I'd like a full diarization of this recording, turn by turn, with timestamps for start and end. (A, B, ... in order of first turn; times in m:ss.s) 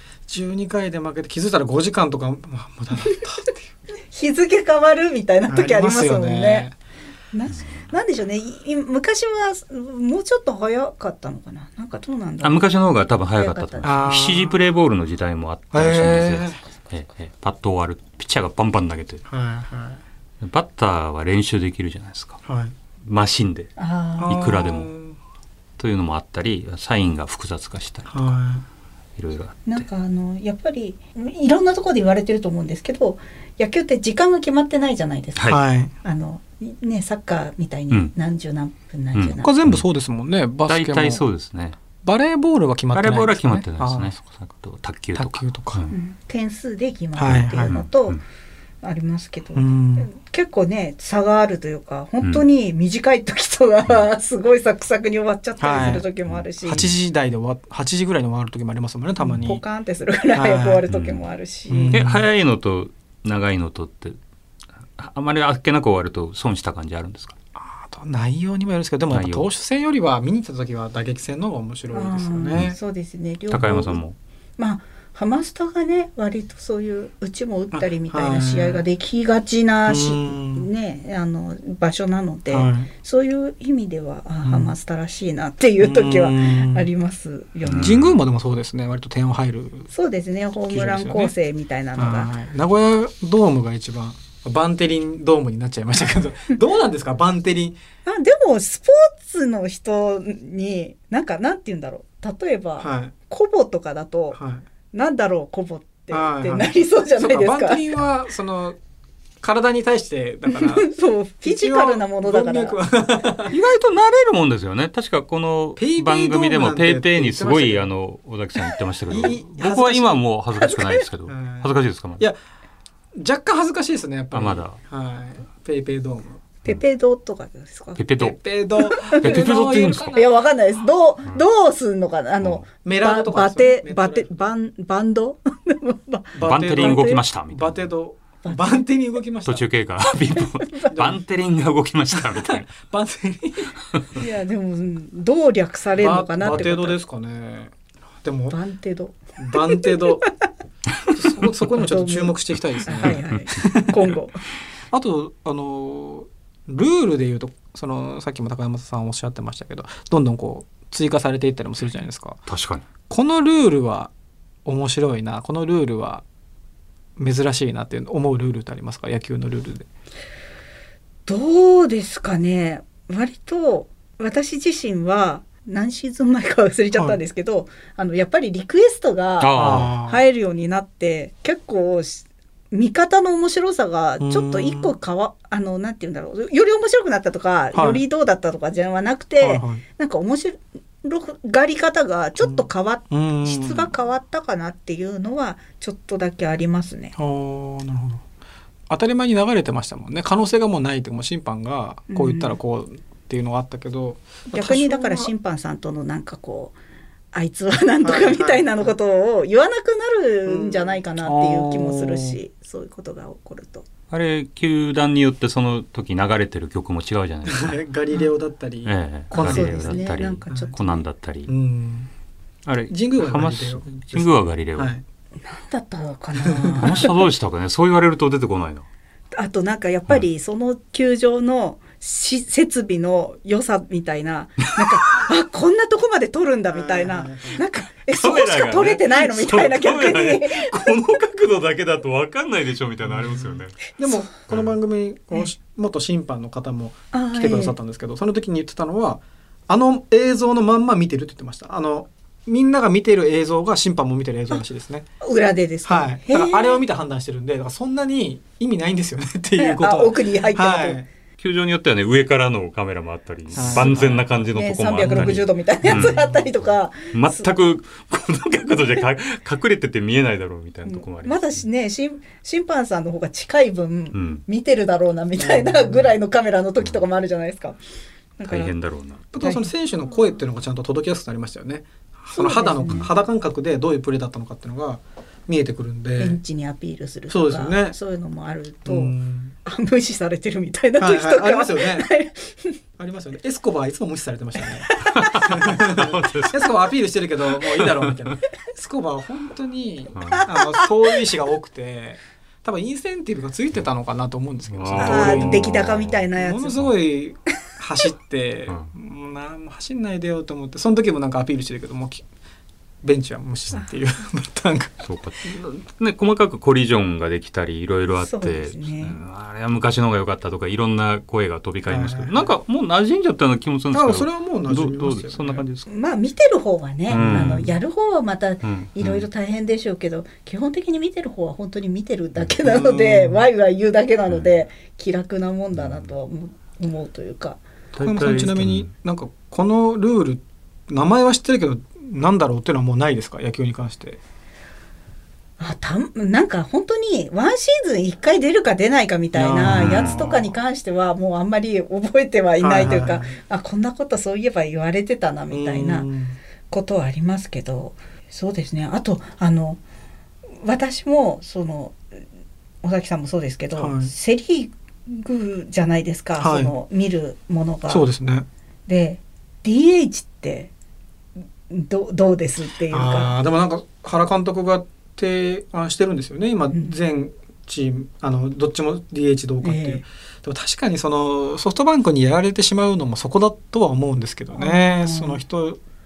0:00.3-0:03.7 A
0:04.1-0:06.7 B
0:05.5-0:06.7 A
0:07.3-0:12.7 B
0:12.4-0:19.2 C
0:13.4-0:14.0 B
0:13.8-0:14.6 A
0:15.7-0:16.6 A
0:19.2-0:20.0 A
0:20.4-0:22.4 C
0:22.4-0:22.7 A
0:23.0-0:24.9 C
0:23.8-0:24.4 B
0:24.2-0:25.2 A
0:25.8-0:28.3 C
0:28.1-0:28.6 A
0:29.2-0:29.9 C
0:29.7-0:39.5 B
0:35.5-0:35.9 A
0:39.1-0:39.8 C
0:39.4-0:41.2 A
0:40.7-0:41.8 C
0:42.0-0:44.1 A
0:42.9-0:45.9 C
0:45.1-0:45.9 A
0:45.9-0:48.2 B
0:47.2-0:47.8 A
0:47.2-0:48.2 C
0:48.8-0:56.8 B
0:49.5-0:50.1 A
0:55.6-0:56.1 A
0:56.3-0:56.9 C
0:56.6-0:59.6 A
0:59.2-1:02.0 B
1:00.3-1:00.8 A
1:00.9-1:01.2 C
1:01.7-1:02.2 A
1:01.9-1:04.2 C
1:05.0-1:07.3 C
1:07.6-1:12.8 A
1:09.1-1:09.5 C
1:11.9-1:14.0 B
1:13.5-1:14.2 C
1:14.6-1:28.0 B
1:17.7-1:18.8 A
1:19.8-1:20.7 A
1:22.5-1:22.9 A
1:24.4-1:24.7 A
1:25.8-1:26.9 A
1:27.6-1:28.2 C
1:27.8-1:29.9 A
1:29.9-1:32.3 B
1:30.7-1:31.3 A
1:32.0-1:37.8 A
1:38.0-1:44.4 B
1:42.8-1:43.1 A
1:44.3-1:44.6 A
1:44.9-1:47.9 B
1:46.1-1:48.8 A
1:49.4-1:50.9 A
1:50.5-1:52.8 B
1:51.4-1:53.6 A
1:53.5-2:02.2 C
1:55.8-1:57.9 A
1:59.1-2:00.2 A
2:00.6-2:01.0 B
2:01.3-2:02.4 A
2:03.1-2:06.4 A
2:04.3-2:04.8 C
2:06.6-2:08.0 B
2:08.0-2:08.4 C
2:08.2-2:10.2 A
2:08.9-2:09.4 B
2:09.0-2:10.2 C
2:10.1-2:17.2 B
2:12.8-2:14.3 A
2:16.3-2:19.6 A
2:16.4-2:17.9 C
2:18.4-2:18.8 B
2:19.4-2:22.7 C
2:20.4-2:20.9 B
2:20.9-2:21.2 A
2:22.1-2:23.7 A
2:23.9-2:24.2 C
2:24.2-2:27.0 B
2:25.9-2:28.6 A
2:28.5-2:30.3 B
2:29.4-2:30.2 A
2:31.1-2:34.1 A
2:31.7-2:34.4 B
2:33.0-2:33.3 C
2:34.9-2:42.4 A
2:42.5-2:42.8 C
2:43.1-2:44.1 A
2:44.6-2:46.2 A
2:47.2-2:49.9 A
2:51.2-3:17.1 B
2:59.4-2:59.9 C
2:59.5-3:00.2 A
3:04.2-3:04.9 A
3:07.7-3:08.0 A
3:09.4-3:09.8 A
3:12.4-3:13.9 A
3:17.2-3:18.2 A
3:18.9-3:25.3 A
3:22.1-3:22.6 B
3:24.5-3:26.8 B
3:27.3-3:33.9 B
3:28.0-3:28.9 A
3:30.4-3:31.0 A
3:31.2-3:32.3 C
3:34.1-3:37.8 C
3:37.4-3:40.7 A
3:38.8-3:41.5 C
3:39.3-3:41.0 B
3:41.5-3:42.1 A
3:42.6-3:44.9 C
3:42.9-3:45.0 A
3:45.4-3:47.2 B
3:46.4-3:47.1 A
3:46.8-3:48.8 C
3:49.3-4:01.0 B
3:56.7-3:57.6 A
3:58.1-4:03.8 C
4:03.0-4:15.1 A
4:07.1-4:07.8 B
4:15.2-4:16.8 B
4:15.8-4:21.0 A
4:19.6-4:21.0 B
4:21.4-4:26.2 C
4:23.5-4:24.3 A
4:23.6-4:23.9 B
4:24.5-4:27.5 B
4:25.0-4:26.5 A
4:27.1-4:31.6 C
4:30.8-4:37.8 B
4:34.1-4:34.4 C
4:35.4-4:36.2 A
4:38.4-4:38.7 B
4:38.4-4:39.2 C
4:39.3-4:46.4 A
4:39.4-4:39.7 B
4:42.3-4:43.1 B
4:46.2-4:52.8 B
4:47.3-4:48.0 A
4:48.8-4:49.5 A
4:51.0-4:52.1 A
4:53.0-5:12.2 A
4:54.9-4:55.1 B
4:55.0-4:56.7 C
4:57.7-4:58.3 C
5:00.1-5:00.4 C
5:00.2-5:00.9 B
5:04.7-5:06.2 C
5:05.0-5:06.8 B
5:13.0-5:14.9 A
5:15.0-5:25.9 C
5:18.2-5:19.2 B
5:21.8-5:22.5 A
5:23.9-5:25.6 A
5:25.9-5:37.6 B
5:27.1-5:27.7 C
5:27.2-5:27.6 A
5:28.6-5:29.3 C
5:32.6-5:33.4 A
5:35.8-5:36.1 C
5:37.9-5:38.9 C
5:38.0-5:44.2 A
5:45.6-5:56.1 B
5:49.3-5:50.5 A
5:49.6-5:50.2 C
5:52.6-5:53.3 A
5:55.5-5:56.4 A
5:56.7-5:59.8 B
6:00.6-6:02.0 B
6:02.8-6:08.0 B
6:03.8-6:04.1 A
6:06.4-6:06.7 A
6:07.9-6:08.4 A
6:08.9-6:10.7 B
6:11.7-6:13.3 B
6:12.9-6:25.8 A
6:19.6-6:20.0 B
6:24.5-6:25.4 B